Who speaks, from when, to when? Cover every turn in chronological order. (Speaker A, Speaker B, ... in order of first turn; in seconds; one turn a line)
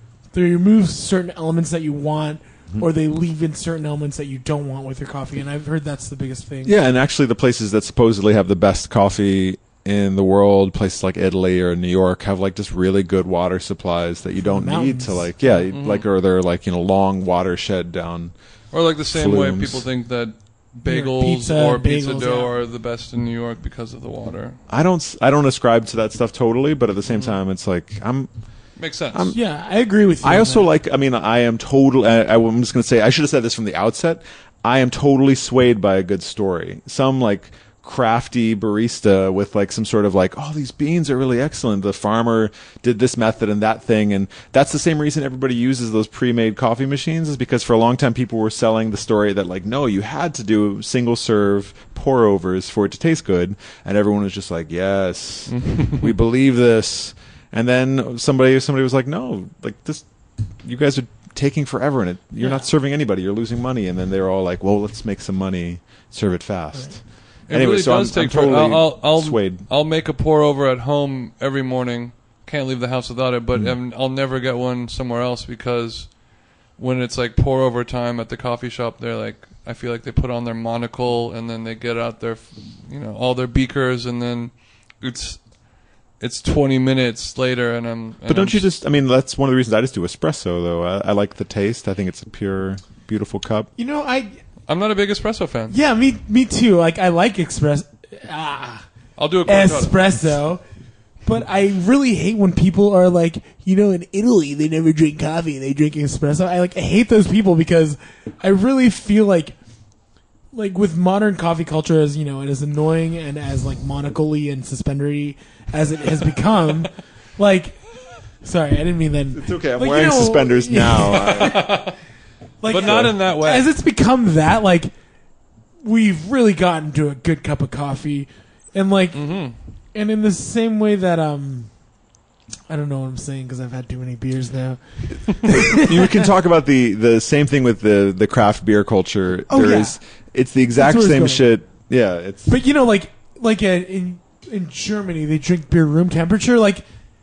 Speaker A: 0.3-6.8
Speaker B: 6.7-18.3
Speaker A: 14.4-15.3
Speaker C: 15.7-16.0
Speaker C: 18.7-24.6
Speaker B: 19.1-19.9
Speaker A: 20.8-22.5
Speaker B: 24.7-28.3
Speaker C: 28.8-29.3
Speaker A: 29.3-30.7
Speaker B: 30.2-60.1
Speaker C: 55.5-56.1
Speaker B: 60.6-69.7
Speaker C: 67.5-76.2
Speaker C: 76.8-85.4
Speaker C: 86.2-88.7
Speaker B: 88.3-93.7
Speaker A: 93.8-94.4
Speaker C: 94.7-95.8
Speaker A: 95.7-98.9
Speaker C: 99.2-100.0
Speaker A: 99.5-100.6
Speaker A: 101.2-109.5
Speaker A: 110.5-117.8
Speaker A: 118.4-121.8
Speaker B: 119.3-121.7
Speaker C: 121.0-122.0
Speaker A: 122.6-124.9
Speaker C: 122.7-123.7
Speaker B: 122.8-123.2
Speaker A: 125.8-129.3
Speaker C: 129.1-129.6
Speaker A: 129.9-131.7
Speaker A: 132.7-136.3
Speaker B: 135.4-142.5
Speaker A: 139.5-140.0
Speaker A: 140.8-141.5
Speaker A: 142.5-146.8